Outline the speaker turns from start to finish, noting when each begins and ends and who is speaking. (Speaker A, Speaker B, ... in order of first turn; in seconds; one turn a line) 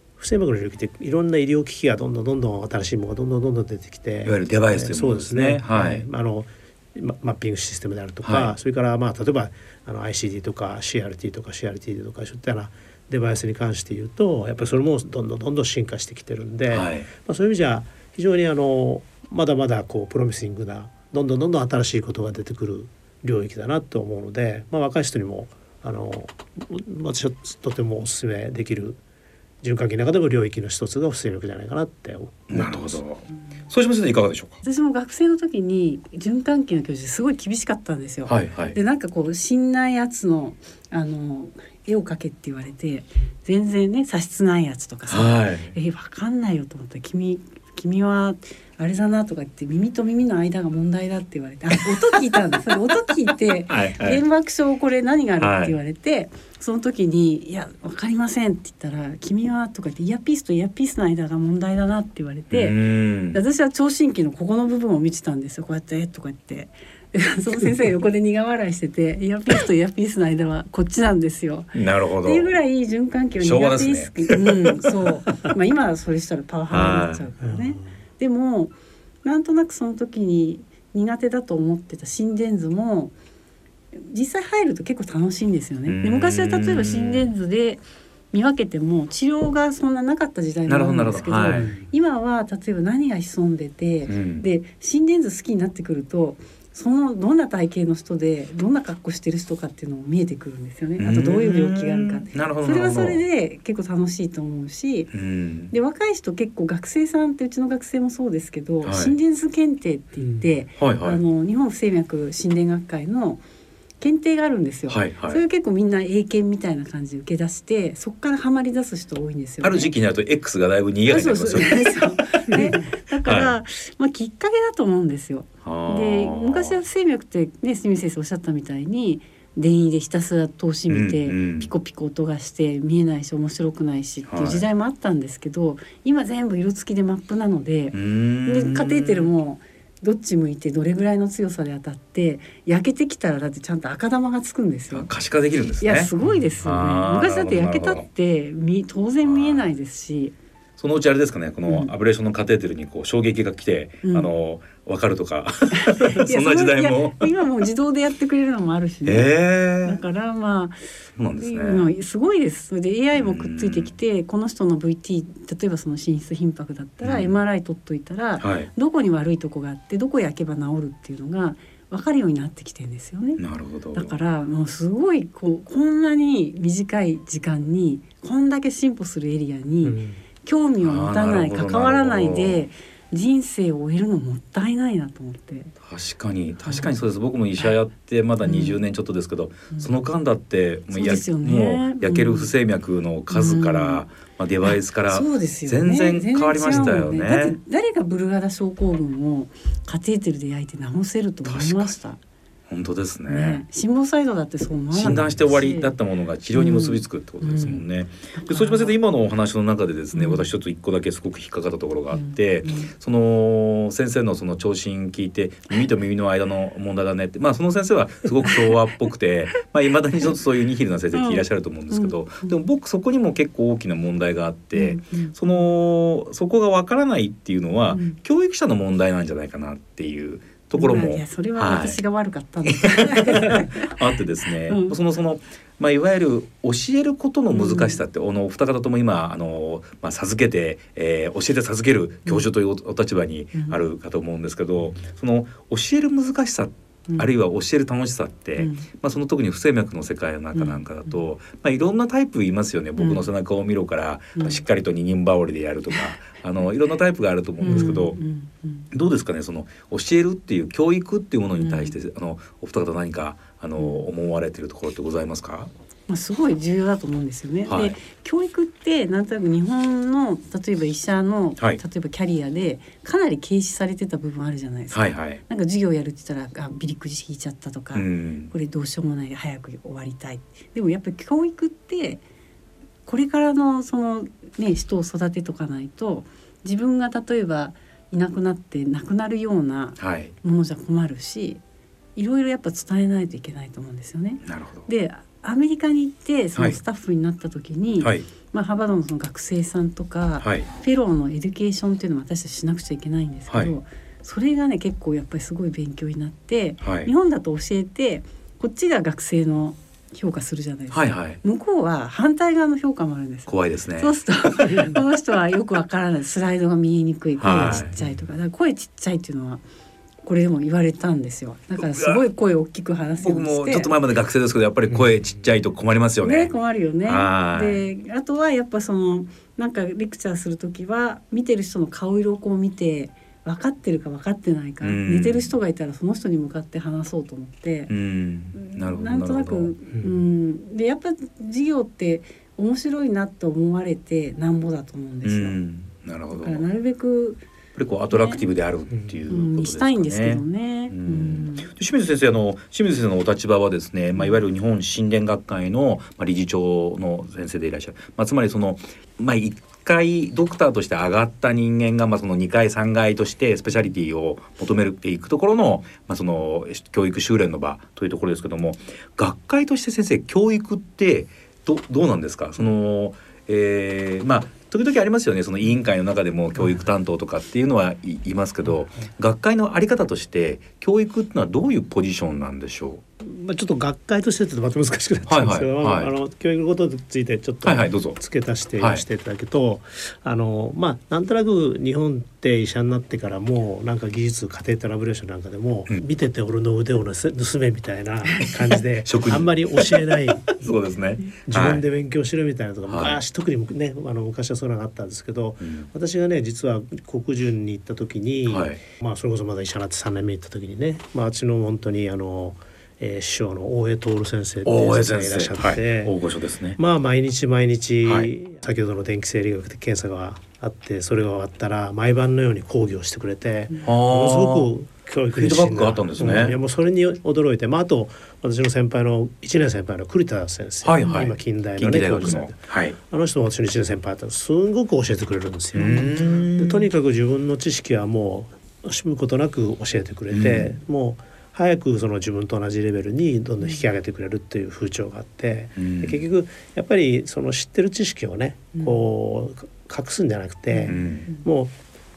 Speaker A: 0.2-29.0
Speaker B: 4.2-6.0
Speaker B: 8.2-8.5
Speaker B: 16.7-17.1
Speaker A: 29.6-33.0
Speaker B: 32.5-34.6
Speaker C: 34.6-83.1
Speaker B: 38.2-38.8
Speaker B: 45.1-45.7
Speaker B: 53.7-54.2
Speaker B: 55.4-55.7
Speaker B: 62.5-63.4
Speaker B: 71.7-72.5
Speaker B: 73.4-74.6
Speaker B: 76.7-77.3
Speaker A: 77.4-77.8
Speaker C: 83.9-105.1
Speaker B: 85.8-87.3
Speaker B: 90.7-91.7
Speaker A: 91.5-91.8
Speaker B: 94.0-94.5
Speaker B: 101.0-103.2
Speaker B: 105.1-105.7
Speaker C: 105.7-113.4
Speaker B: 108.8-109.1
Speaker B: 110.8-111.2
Speaker C: 114.0-119.9
Speaker B: 114.9-115.4
Speaker B: 119.6-122.7
Speaker C: 121.1-145.1
Speaker B: 123.2-123.5
Speaker B: 125.6-126.7
Speaker B: 130.9-131.7
Speaker B: 134.3-134.6
Speaker B: 137.9-139.3
Speaker B: 144.9-146.1
Speaker C: 145.8-150.3
Speaker B: 146.6-148.1
Speaker B: 149.2-149.7
Speaker B: 150.8-157.3
Speaker C: 151.7-151.9
Speaker C: 154.0-154.3
Speaker C: 155.7-160.8
Speaker B: 159.0-160.0
Speaker B: 161.2-161.9
Speaker C: 161.4-173.4
Speaker B: 163.1-163.9
Speaker B: 167.0-167.3
Speaker B: 168.4-168.7
Speaker B: 173.4-174.1
Speaker C: 173.9-185.7
Speaker B: 180.8-182.6
Speaker B: 185.8-197.6
Speaker C: 186.6-186.9
Speaker C: 188.4-188.8
Speaker C: 190.9-192.5
Speaker C: 193.3-194.0
Speaker C: 194.7-202.2
Speaker B: 201.5-201.9
Speaker B: 202.7-203.6
Speaker C: 203.3-205.9
Speaker B: 204.9-232.0
Speaker C: 206.5-208.9
Speaker C: 210.1-210.5
Speaker C: 212.1-212.9
Speaker C: 221.1-222.5
Speaker C: 224.7-225.3
Speaker C: 227.9-228.2
Speaker C: 230.7-233.9
Speaker B: 232.7-258.2
Speaker C: 234.7-234.9
Speaker C: 237.5-238.0
Speaker C: 248.6-248.9
Speaker C: 250.5-251.2
Speaker C: 253.0-253.3
Speaker C: 254.3-254.6
Speaker C: 257.6-258.9
Speaker A: 257.7-258.0
Speaker B: 258.9-265.7
Speaker C: 261.6-261.9
Speaker C: 263.8-264.0
Speaker C: 266.1-282.2
Speaker B: 267.7-268.0
Speaker B: 274.9-275.4
Speaker B: 277.9-278.5
Speaker C: 283.1-291.6
Speaker B: 290.0-290.3
Speaker C: 292.1-319.6
Speaker B: 294.4-294.9
Speaker B: 298.0-298.3
Speaker B: 300.4-300.7
Speaker B: 303.5-303.7
Speaker B: 306.8-307.1
Speaker B: 310.9-311.4
Speaker B: 313.5-314.1
Speaker B: 317.4-317.9
Speaker A: 317.6-318.2
Speaker C: 320.2-323.9
Speaker B: 321.8-322.2
Speaker B: 323.2-326.5
Speaker C: 326.2-337.9
Speaker B: 327.0-327.8
Speaker B: 334.8-335.5
Speaker B: 337.9-339.7
Speaker C: 338.6-345.6
Speaker A: 339.9-340.1
Speaker B: 345.2-346.6
Speaker C: 346.3-347.4
Speaker B: 347.7-383.0
Speaker C: 348.1-348.5
Speaker C: 349.3-351.7
Speaker C: 354.1-354.4
Speaker A: 383.2-400.7
Speaker B: 385.2-386.1
Speaker B: 387.6-388.2
Speaker B: 388.8-389.0
Speaker B: 398.4-401.8
Speaker A: 401.4-416.1
Speaker B: 402.9-403.2
Speaker B: 405.6-405.9
Speaker B: 408.5-408.8
Speaker B: 414.6-416.8
Speaker A: 416.8-451.8
Speaker B: 418.0-418.3
Speaker B: 423.8-424.7
Speaker B: 425.4-426.6
Speaker B: 430.8-433.0
Speaker B: 435.7-436.9
Speaker C: 435.8-436.1
Speaker B: 440.3-440.7
Speaker B: 445.8-446.2
Speaker C: 448.7-449.1
Speaker C: 450.7-451.4
Speaker B: 450.9-451.2